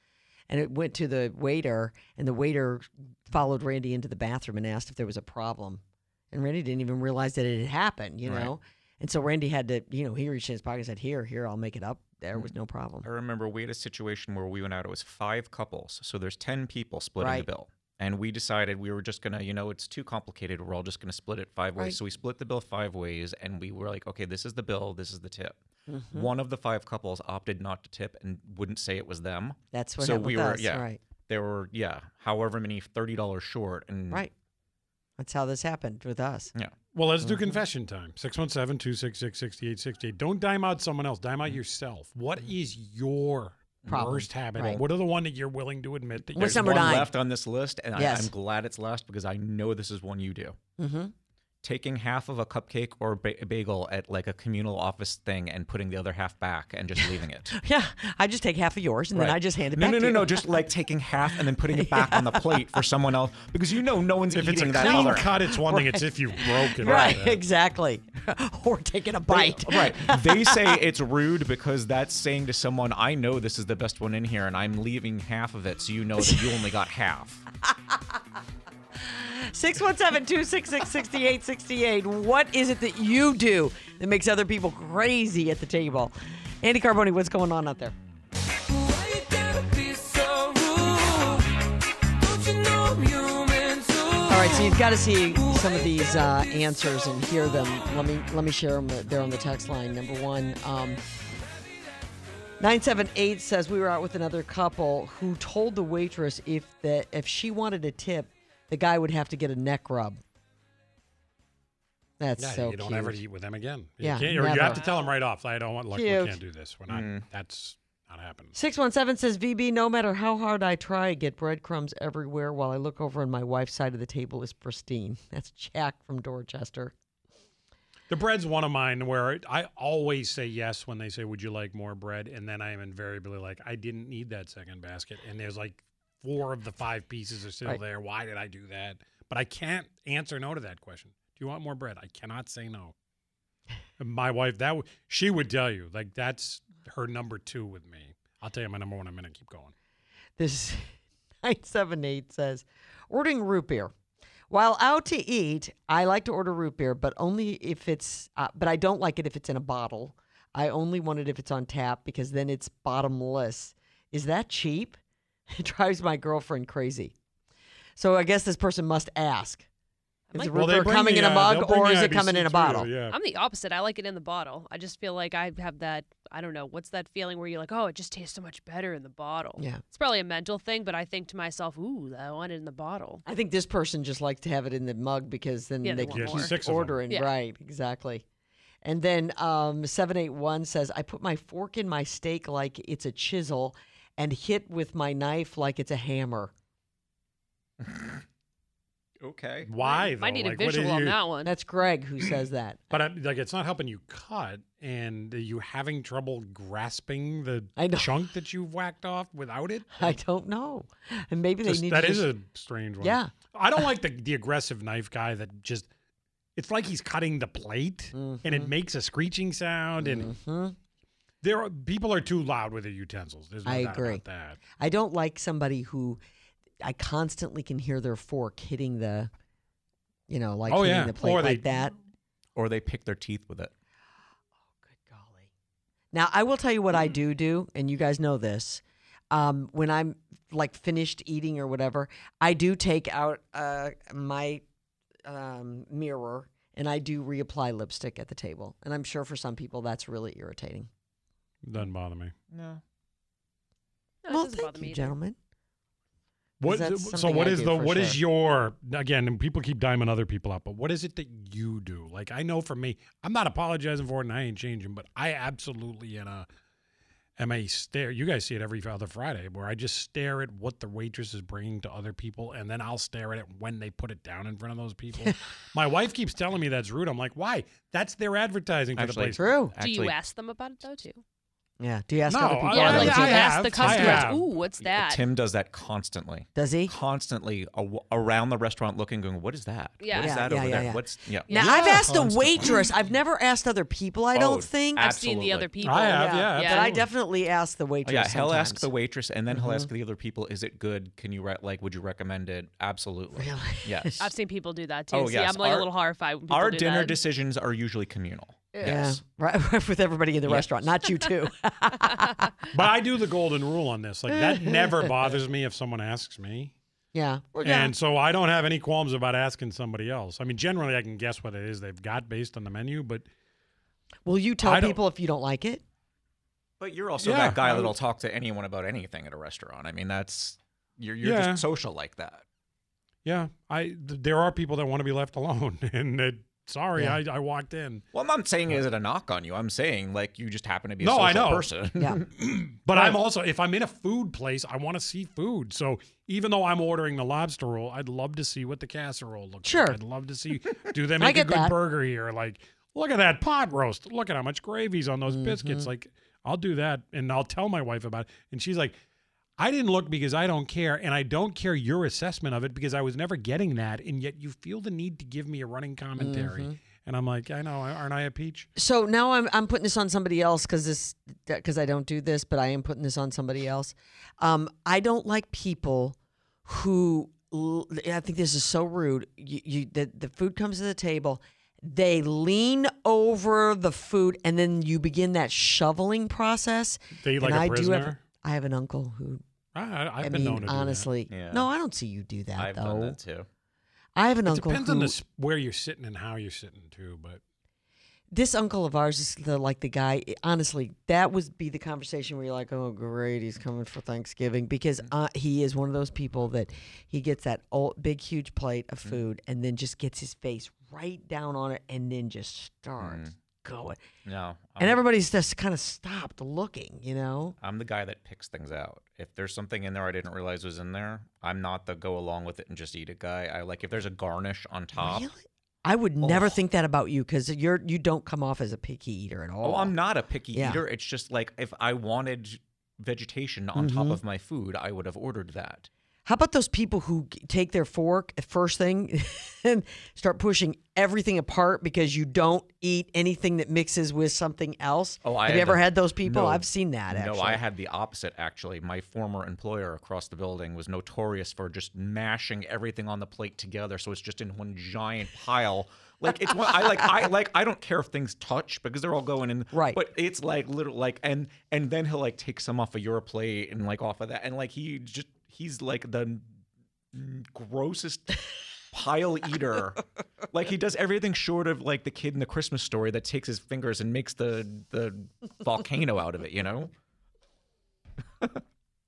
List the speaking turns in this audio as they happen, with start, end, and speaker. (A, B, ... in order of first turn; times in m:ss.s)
0:00.5-0:13.1 A
0:08.2-0:08.5 B
0:13.0-0:25.6 B
0:17.2-0:17.5 A
0:25.9-0:26.3 A
0:26.1-0:34.3 B
0:29.7-0:31.0 A
0:35.2-0:36.5 A
0:36.9-0:46.9 C
0:37.2-0:37.6 A
0:43.9-0:44.8 A
0:46.3-0:47.1 A
0:46.4-0:50.6 B
0:47.9-0:48.3 A
0:50.8-0:51.1 A
0:51.6-0:57.6 B
0:57.0-1:00.7 A
0:59.1-1:05.3 B
1:01.3-1:02.8 A
1:04.3-1:07.4 C
1:04.8-1:10.8 A
1:06.8-1:07.1 B
1:09.3-1:17.5 B
1:16.2-1:16.5 A
1:19.0-1:28.0 A
1:34.3-1:41.0 A
1:42.6-1:50.2 A
1:52.2-1:53.2 A
1:52.4-1:58.6 C
1:54.0-1:54.8 A
1:54.6-1:55.1 D
1:55.9-1:56.4 A
1:56.9-1:57.3 B
1:58.5-2:06.9 A
2:08.1-2:22.9 C
2:24.0-2:29.7 C
2:30.4-2:30.9 A
2:31.4-2:33.9 A
2:34.5-2:45.0 A
2:45.5-2:47.1 A
2:48.0-2:49.7 A
2:50.3-2:50.6 D
2:50.3-2:52.9 A
2:50.5-2:53.2 C
2:53.1-3:03.2 D
2:59.6-2:59.8 A
3:03.3-3:08.2 A
3:05.8-3:06.5 D
3:06.1-3:07.0 C
3:08.8-3:16.5 A
3:17.8-3:18.2 B
3:19.2-3:19.7 B
3:19.6-3:21.2 C
3:19.8-3:21.5 D
3:21.4-3:22.8 A
3:22.9-3:30.2 C
3:27.8-3:28.2 A
3:30.0-3:32.3 A
3:31.6-3:35.9 C
3:33.0-3:33.3 A
3:36.6-3:40.3 C
3:38.1-3:38.7 A
3:40.0-3:40.8 A
3:41.4-3:44.6 C
3:43.6-3:44.2 A
3:44.8-3:46.2 A
3:46.8-3:49.3 A
3:50.3-3:52.0 A
3:50.7-3:51.7 C
3:52.6-3:53.7 B
3:54.7-3:55.5 A
3:56.1-4:04.6 A
4:05.3-4:10.9 A
4:11.6-4:12.3 C
4:12.5-4:12.8 B
4:14.2-4:15.1 D
4:14.3-4:15.4 A
4:16.6-4:26.5 C
4:16.6-4:18.2 A
4:27.4-4:39.6 C
4:39.0-4:40.2 B
4:39.4-4:39.7 A
4:39.8-4:41.2 D
4:41.8-4:43.5 A
4:42.3-4:44.4 C
4:42.7-4:45.2 D
4:43.8-4:44.2 B
4:44.0-4:44.3 A
4:44.8-4:51.6 B
4:46.6-4:47.0 A
4:50.0-4:50.4 D
4:50.2-4:55.1 A
4:51.5-4:51.8 D
4:51.6-4:52.9 C
4:54.3-4:55.7 B
4:55.0-4:56.9 D
4:55.8-4:57.1 C
4:56.2-4:58.9 A
4:58.0-5:04.2 B
4:59.5-4:59.9 A
5:03.4-5:04.3 A
5:04.2-5:07.2 D
5:05.1-5:05.9 B
5:06.5-5:09.2 B
5:08.7-5:12.5 A
5:10.5-5:10.9 B
5:12.7-5:16.7 C
5:14.3-5:15.4 A
5:17.1-5:17.9 A
5:17.6-5:23.3 C
5:24.2-5:25.8 A
5:24.6-5:25.0 C
5:26.8-5:32.4 B
5:27.2-5:28.0 C
5:31.2-5:31.6 C
5:33.2-5:38.0 C
5:38.1-5:42.2 B
5:41.0-5:41.7 C
5:42.4-5:59.0 C
5:42.9-5:43.2 A
5:49.6-5:50.0 A
5:51.2-5:51.8 A
5:55.3-5:55.9 A
5:59.6-6:08.7 C
6:06.2-6:06.8 A
6:08.8-6:29.4 A
6:27.2-6:28.2 C
6:29.8-6:31.1 C
6:30.2-6:33.2 A
6:31.3-6:31.7 B
6:32.6-6:33.5 B
6:34.2-6:35.2 A
6:34.5-6:37.4 C
6:38.3-6:54.0 A
6:53.0-6:53.3 B
6:54.2-6:55.0 B
6:54.8-6:57.6 A
6:57.6-7:05.3 B
7:05.0-7:10.0 A
7:06.2-7:06.6 B
7:09.6-7:15.9 B
7:10.5-7:10.8 A
7:13.7-7:14.2 A
7:16.3-7:27.6 A
7:25.2-7:46.5 B
7:39.7-7:40.0 A
7:47.1-7:48.4 B
7:48.9-7:50.0 B
7:50.5-7:56.9 B